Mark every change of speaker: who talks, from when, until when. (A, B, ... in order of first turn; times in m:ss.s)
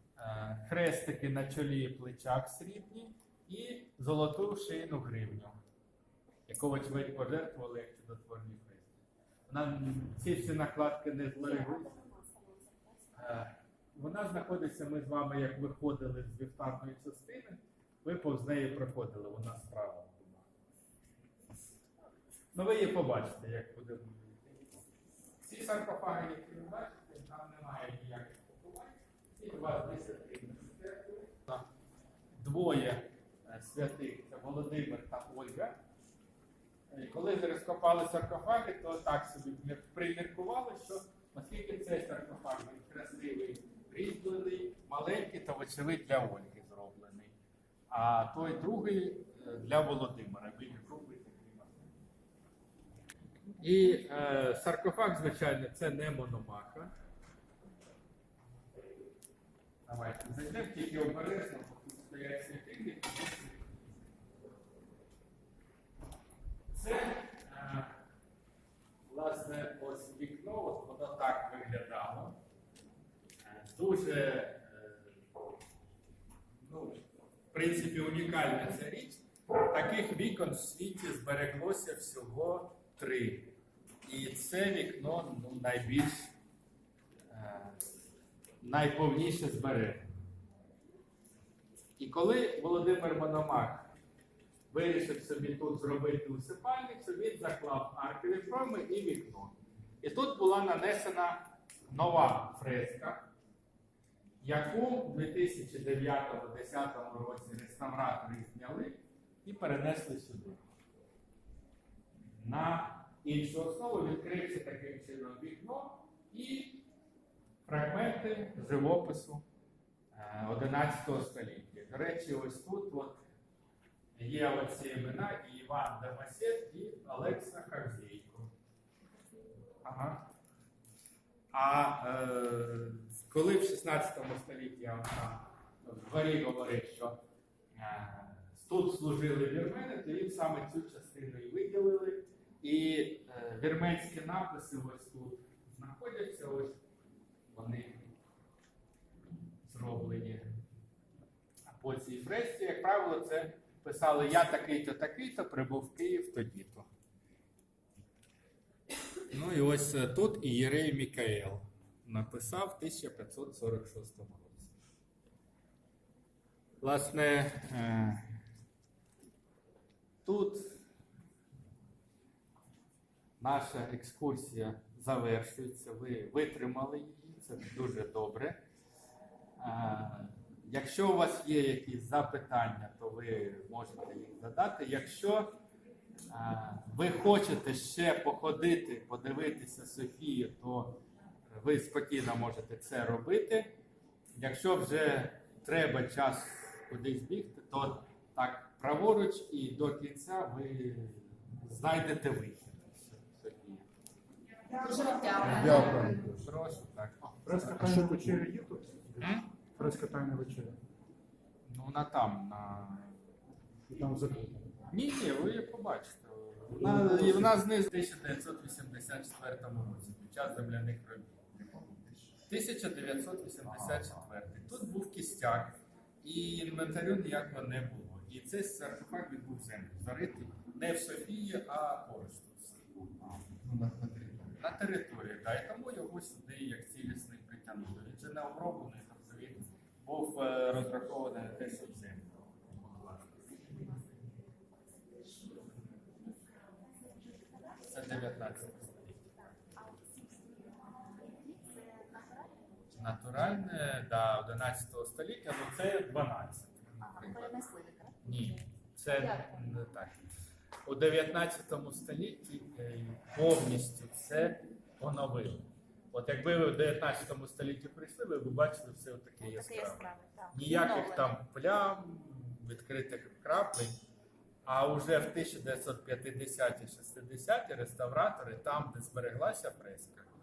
0:00.2-0:05.6 A
0:06.5-0:08.9 A
0:09.5-0:12.0 A
0:11.6-0:12.9 B
0:13.1-0:20.5 A
0:22.5-0:24.8 A
0:25.4-0:31.7 A
0:32.4-0:35.8 A
0:36.9-0:47.3 A
0:47.9-0:51.9 A
0:53.6-0:56.9 A
0:59.8-1:03.8 A
1:06.7-1:08.0 A
1:09.1-1:12.4 A
1:13.4-1:15.2 A
1:16.7-1:17.0 A
1:17.5-1:26.3 A
1:27.3-1:27.9 A
1:28.6-1:30.1 A
1:32.0-1:33.9 A
1:34.7-1:43.3 A
1:44.4-1:50.6 A
1:52.4-1:56.9 A
1:57.6-1:59.4 A
2:00.1-2:03.2 A
2:04.1-2:08.5 A
2:09.8-2:10.2 A
2:11.5-2:17.2 A
2:17.7-2:26.8 A
2:27.5-2:28.1 A
2:29.6-2:30.5 A
2:31.6-2:36.9 A
2:39.3-2:44.7 A
2:46.8-2:48.4 A
2:50.2-2:50.8 A
2:53.4-2:58.6 A
2:59.6-3:05.6 A
3:06.3-3:13.7 A
3:14.4-3:23.9 A
3:24.7-3:26.2 B
3:25.3-3:28.3 A
3:25.4-3:26.4 C
3:27.4-3:30.8 C
3:29.2-3:29.5 A
3:31.6-3:33.1 A
3:33.9-3:34.7 C
3:34.9-3:41.8 A
3:36.7-3:37.5 C
3:42.4-4:03.2 A
3:53.8-3:54.3 C
4:07.8-4:09.2 A
4:09.9-4:10.2 B
4:11.5-4:12.4 B
4:12.9-4:17.6 A
4:17.0-4:18.5 B
4:18.2-4:20.2 A
4:19.1-4:19.5 B
4:20.8-4:34.0 A
4:29.4-4:31.3 B
4:34.6-4:40.3 A